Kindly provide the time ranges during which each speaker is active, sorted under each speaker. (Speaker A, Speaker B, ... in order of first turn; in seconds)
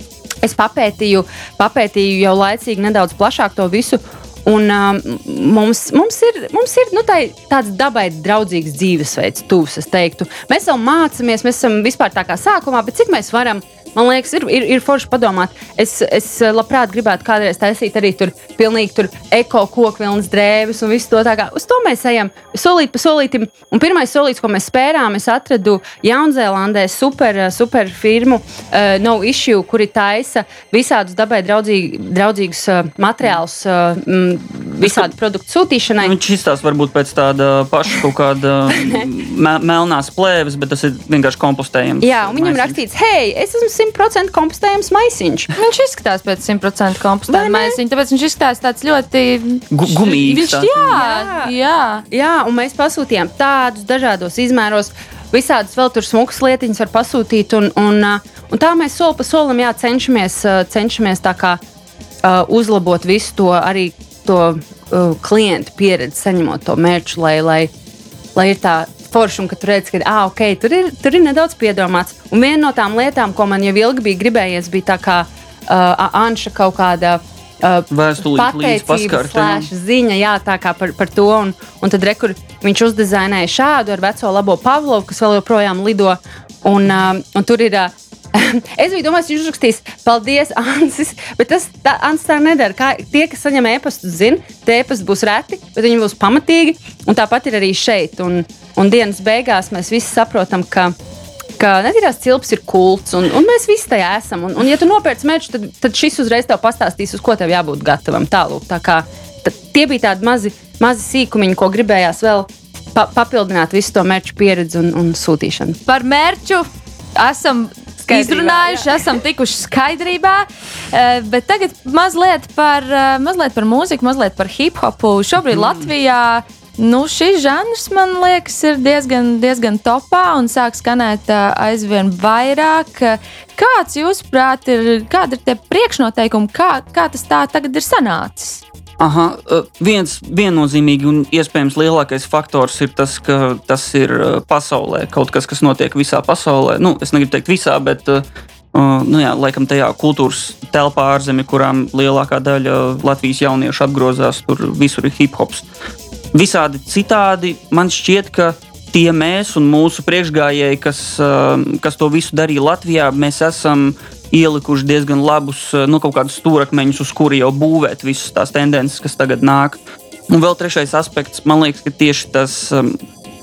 Speaker A: 0.4-36.1, 42.0-45.5, 47.3-47.8, 50.9-51.5, 52.1-61.6, 62.2-67.7, 68.3-100.9, 101.6-115.8, 118.1-119.0
Speaker B: 34.8-35.1, 36.0-42.8, 49.7-50.9, 77.9-79.7, 125.5-125.9, 139.0-155.7, 156.3-173.0
Speaker C: 45.6-52.0, 115.8-138.6